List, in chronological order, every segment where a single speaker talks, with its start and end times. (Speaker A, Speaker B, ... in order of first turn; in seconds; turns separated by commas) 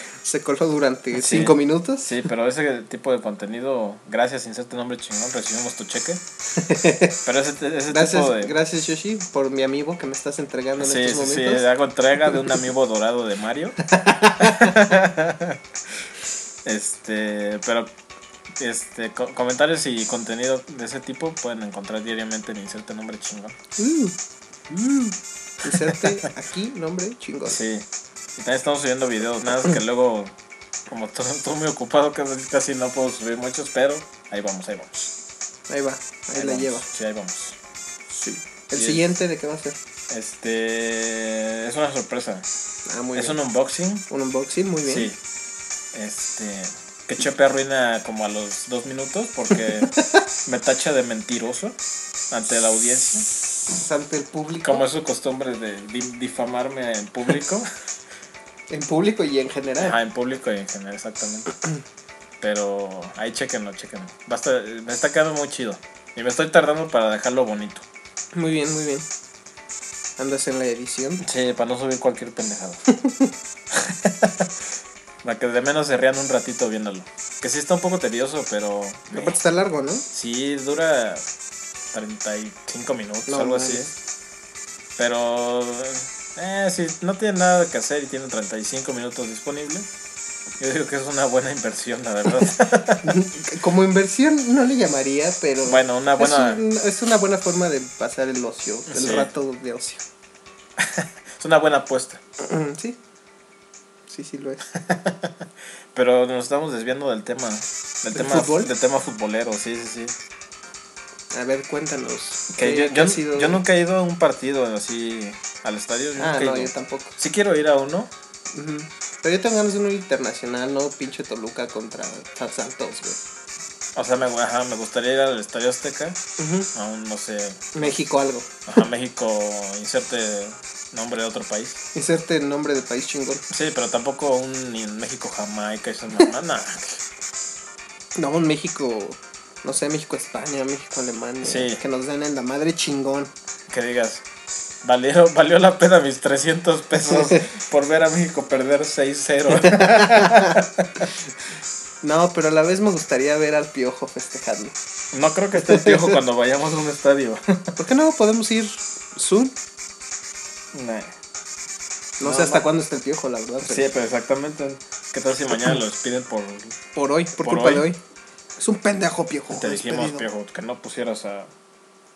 Speaker A: 0.2-2.1, Speaker B: 1.1-6.2, Speaker A: 6.5-7.2, Speaker B: 7.2-8.5, Speaker A: 7.9-11.7, Speaker B: 10.8-13.8, Speaker A: 13.9-14.8, Speaker B: 14.4-15.6, Speaker B: 16.6-17.9, Speaker B: 18.6-23.6, Speaker A: 23.8-24.1, Speaker A: 24.7-27.6, Speaker B: 25.7-26.2, Speaker B: 27.5-27.9, Speaker B: 28.4-30.3, Speaker B: 30.9-35.1, Speaker A: 35.7-36.9, Speaker B: 36.3-37.6, Speaker A: 38.1-39.8, Speaker B: 38.7-39.0, Speaker B: 40.1-42.5, Speaker A: 42.9-43.4, Speaker B: 43.1-44.0, Speaker A: 44.1-45.1, Speaker B: 44.8-45.2, Speaker B: 45.9-49.9, Speaker A: 49.9-50.2, Speaker B: 50.4-51.8, Speaker B: 52.3-53.2, Speaker A: 53.7-54.8, Speaker B: 54.6-57.7, Speaker A: 58.7-60.0, Speaker B: 59.8-61.5, Speaker B: 62.4-67.8, Speaker A: 68.3-69.0, Speaker A: 70.2-71.2, Speaker B: 71.2-72.8, Speaker A: 72.9-73.3, Speaker B: 73.7-74.5, Speaker B: 75.2-79.4, Speaker A: 79.1-80.0, Speaker B: 80.1-81.2, Speaker B: 81.9-83.9, Speaker A: 83.3-83.8, Speaker B: 85.0-89.9, Speaker B: 90.6-93.1, Speaker A: 93.0-100.0, Speaker B: 95.6-96.6, Speaker B: 98.9-99.3, Speaker B: 100.8-102.2, Speaker A: 102.4-103.0, Speaker A: 104.1-104.7, Speaker B: 104.7-110.2, Speaker A: 108.1-108.7, Speaker A: 111.3-113.6, Speaker B: 112.5-118.1, Speaker A: 116.2-117.2, Speaker A: 118.5-123.2, Speaker B: 123.9-126.2, Speaker A: 126.4-126.7, Speaker B: 126.7-128.0, Speaker A: 127.7-128.6, Speaker B: 128.7-131.8, Speaker A: 131.9-133.4, Speaker B: 133.5-137.0, Speaker A: 138.2-143.3, Speaker B: 141.4-141.8, Speaker B: 143.7-144.2, Speaker B: 144.8-151.1, Speaker A: 147.1-147.4, Speaker A: 149.5-150.6, Speaker A: 152.0-154.8, Speaker B: 155.1-157.8, Speaker A: 155.6-156.2, Speaker A: 157.8-159.6, Speaker B: 160.7-161.1, Speaker B: 162.2-162.7, Speaker A: 162.2-163.9, Speaker B: 163.6-166.8, Speaker A: 166.9-168.0, Speaker B: 167.4-167.9, Speaker A: 168.6-170.3, Speaker B: 169.5-171.5